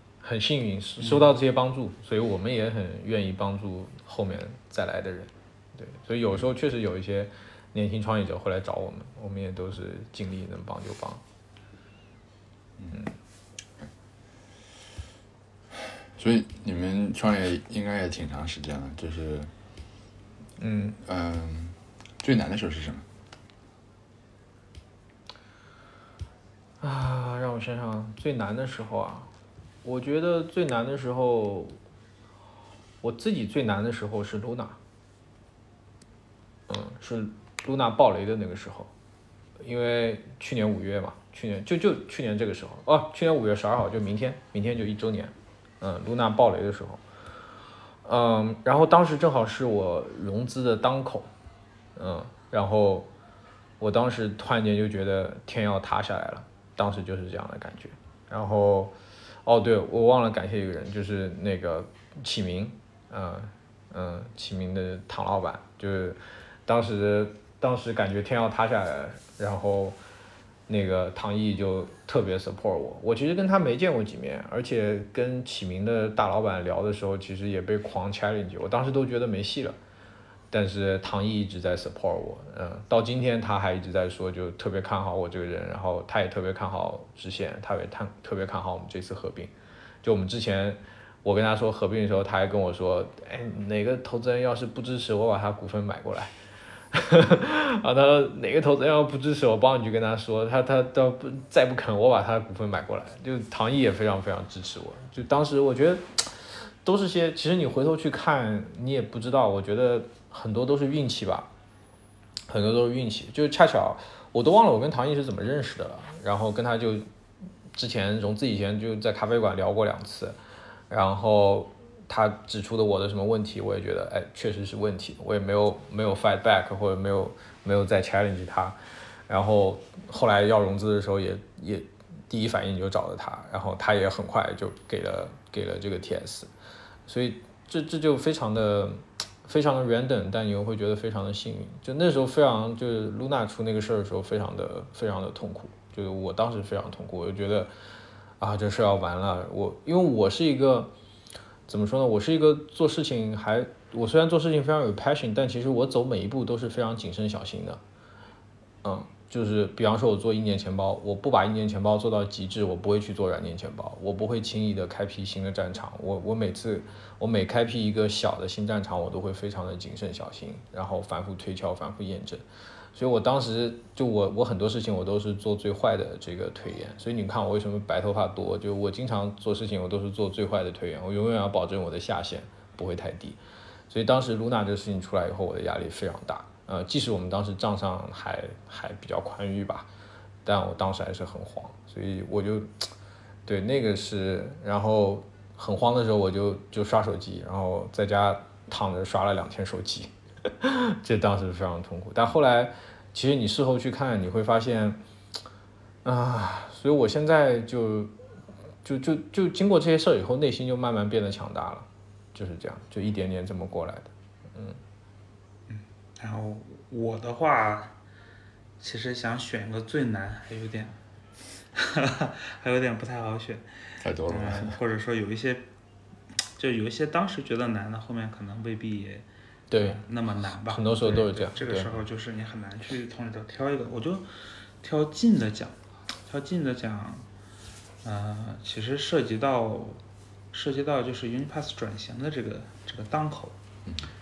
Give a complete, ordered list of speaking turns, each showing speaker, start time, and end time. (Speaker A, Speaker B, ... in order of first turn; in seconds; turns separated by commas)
Speaker A: 0.2-11.2, Speaker B: 1.0-1.3, Speaker C: 12.8-13.1, Speaker C: 16.1-19.5, Speaker A: 20.6-21.0, Speaker C: 21.0-23.1, Speaker A: 26.8-29.3, Speaker A: 29.8-31.8, Speaker A: 33.0-34.8, Speaker A: 36.7-38.9, Speaker A: 39.6-47.0, Speaker A: 48.0-51.3, Speaker A: 52.0-53.1, Speaker A: 53.8-70.0, Speaker A: 70.7-79.8, Speaker A: 80.5-89.5, Speaker A: 90.0-96.3, Speaker A: 96.9-111.5, Speaker A: 112.5-117.1, Speaker A: 117.7-120.4, Speaker A: 120.9-136.5, Speaker A: 137.1-147.7, Speaker A: 148.4-150.9, Speaker A: 151.7-157.8, Speaker A: 158.8-183.4, Speaker A: 183.9-189.9, Speaker A: 190.4-192.9, Speaker A: 193.4-205.0, Speaker A: 206.0-208.2, Speaker A: 208.8-214.8, Speaker B: 215.7-217.9, Speaker B: 218.8-221.0, Speaker B: 221.7-225.6, Speaker C: 224.0-224.8, Speaker B: 226.6-234.3, Speaker A: 229.7-230.0, Speaker A: 230.7-231.9, Speaker B: 234.8-237.2, Speaker B: 238.0-243.6